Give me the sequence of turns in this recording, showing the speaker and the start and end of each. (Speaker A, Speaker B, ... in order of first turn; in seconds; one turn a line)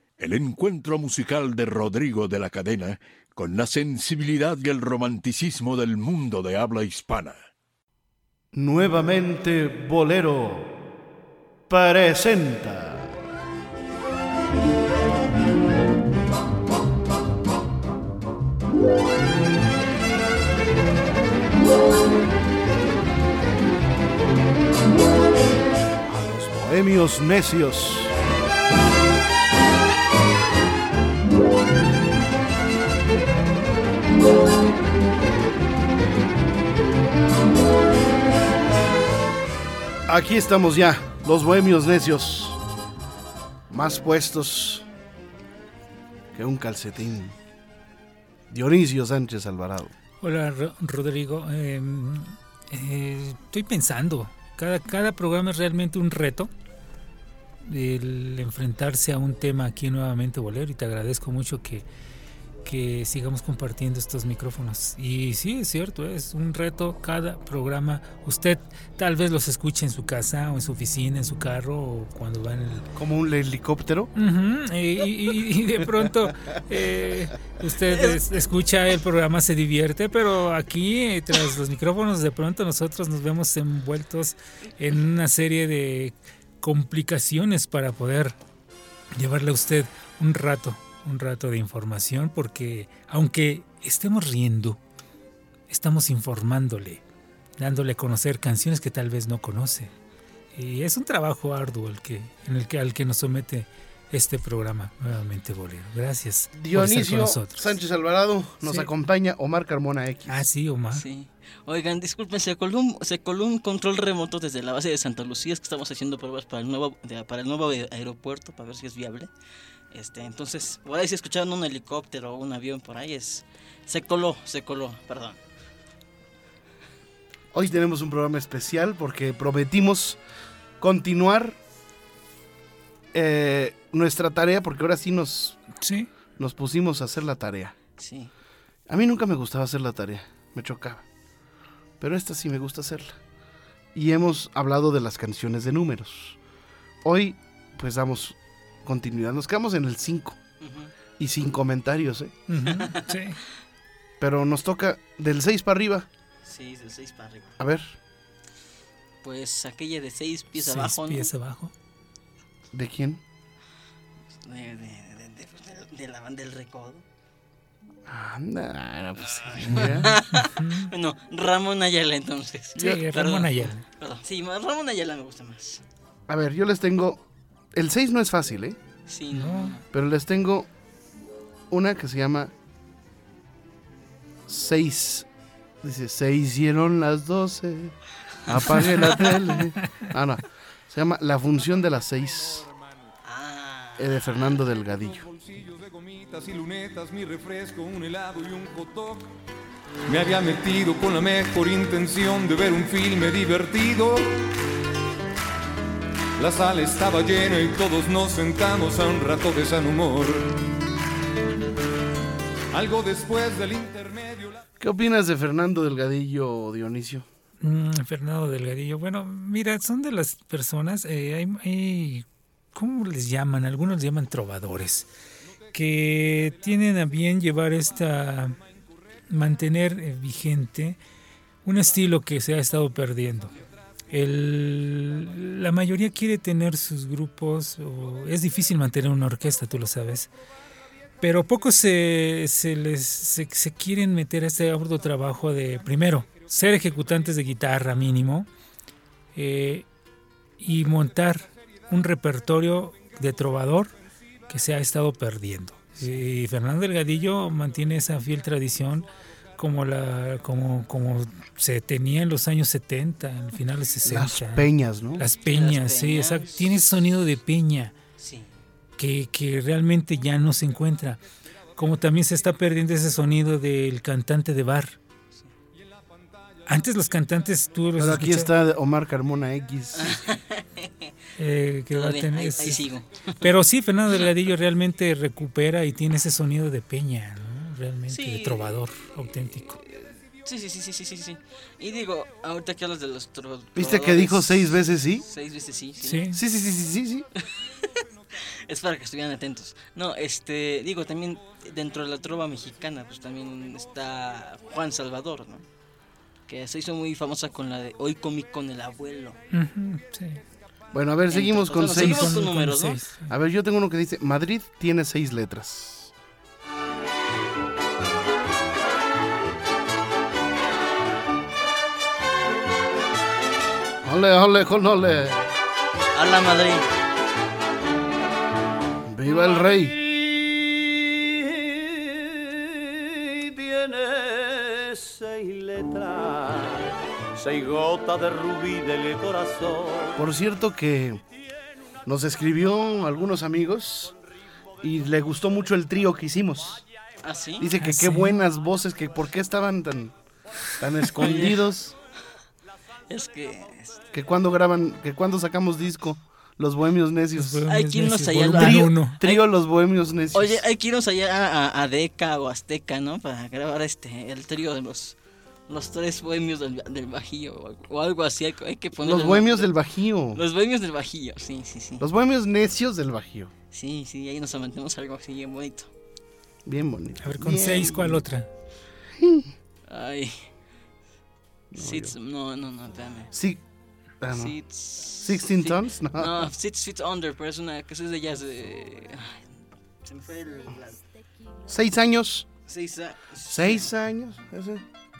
Speaker A: 0.2-7.4
Speaker B: 8.5-10.7
Speaker B: 11.7-13.2
Speaker B: 26.1-28.1
Speaker B: 40.1-42.6
Speaker B: 43.7-44.9
Speaker B: 46.3-47.4
Speaker B: 48.5-49.9
Speaker C: 50.2-56.5
Speaker C: 57.6-61.9
Speaker C: 62.6-72.9
Speaker B: 73.0-74.1
Speaker C: 74.2-88.3
Speaker C: 89.1-94.8
Speaker C: 95.7-97.0
Speaker C: 97.6-99.9
Speaker C: 100.5-107.7
Speaker B: 106.5-110.5
Speaker C: 110.3-111.0
Speaker D: 110.9-119.3
Speaker D: 119.9-125.4
Speaker B: 127.5-130.2
Speaker B: 130.8-131.6
Speaker B: 133.1-135.6
Speaker C: 135.8-136.1
Speaker B: 136.4-137.7
Speaker D: 138.0-138.3
Speaker B: 138.9-141.0
Speaker B: 142.0-143.2
Speaker B: 143.9-146.4
Speaker B: 147.0-150.4
Speaker D: 150.6-150.9
Speaker B: 151.2-152.3
Speaker C: 152.5-153.4
Speaker D: 152.7-153.1
Speaker B: 154.2-156.1
Speaker D: 156.4-157.6
Speaker B: 157.6-157.9
Speaker D: 159.2-161.3
Speaker C: 160.6-161.7
Speaker B: 162.7-163.2
Speaker D: 164.4-167.0
Speaker B: 168.1-170.1
Speaker D: 169.2-175.8
Speaker C: 169.8-170.9
Speaker C: 172.8-173.8
Speaker B: 176.3-177.2
Speaker B: 177.7-178.8
Speaker D: 179.1-179.8
Speaker C: 179.3-179.8
Speaker B: 179.9-180.7
Speaker B: 181.7-182.5
Speaker B: 184.5-185.3
Speaker B: 185.8-192.7
Speaker C: 188.8-190.0
Speaker D: 193.2-194.6
Speaker B: 194.0-195.2
Speaker E: 195.2-199.3
Speaker E: 200.1-204.3
Speaker E: 206.4-210.5
Speaker E: 212.7-214.6
Speaker B: 214.8-217.2
Speaker C: 217.6-225.1
Speaker C: 225.7-228.6
Speaker C: 229.3-231.0
Speaker C: 231.6-233.5
Speaker C: 234.1-240.3
Speaker C: 241.2-248.5
Speaker C: 249.3-249.8
Speaker C: 250.6-253.9
Speaker C: 254.5-267.9
Speaker B: 264.0-265.2
Speaker D: 265.4-266.8
Speaker D: 268.2-268.5
Speaker C: 269.0-271.2
Speaker C: 271.8-274.9
Speaker C: 276.7-278.5
Speaker B: 278.0-280.3
Speaker D: 279.9-281.1
Speaker C: 281.4-289.8
Speaker D: 281.9-283.4
Speaker D: 288.1-296.3
Speaker B: 293.7-295.2
Speaker C: 296.0-296.4
Speaker B: 296.3-297.3
Speaker D: 297.4-297.9
Speaker D: 298.4-305.6
Speaker D: 306.5-309.4
Speaker C: 309.5-310.4
Speaker B: 310.9-312.5
Speaker D: 311.3-313.0
Speaker C: 311.8-313.3
Speaker B: 313.3-316.1
Speaker B: 324.0-325.5
Speaker D: 326.1-326.9
Speaker B: 329.1-329.9
Speaker F: 329.6-340.2
Speaker B: 340.1-341.2
Speaker B: 342.1-344.1
Speaker B: 344.8-346.8
Speaker D: 347.2-347.7
Speaker B: 347.6-350.1
Speaker C: 347.8-348.4
Speaker B: 350.7-351.9
Speaker D: 351.1-351.6
Speaker D: 353.1-354.1
Speaker B: 354.1-357.6
Speaker C: 357.4-359.2
Speaker D: 357.7-359.4
Speaker B: 358.5-360.6
Speaker D: 360.3-365.2
Speaker D: 365.7-369.8
Speaker B: 369.0-370.4
Speaker D: 370.3-372.0
Speaker B: 372.0-373.5
Speaker D: 373.7-375.9
Speaker B: 376.6-378.2
Speaker C: 377.2-378.5
Speaker B: 379.1-379.5
Speaker D: 379.9-380.5
Speaker B: 381.7-382.1
Speaker D: 381.8-383.3
Speaker B: 383.3-383.6
Speaker B: 384.2-384.5
Speaker D: 384.3-389.5
Speaker B: 385.1-386.5
Speaker D: 390.0-391.0
Speaker B: 391.7-392.5
Speaker D: 392.6-393.9
Speaker B: 393.5-394.8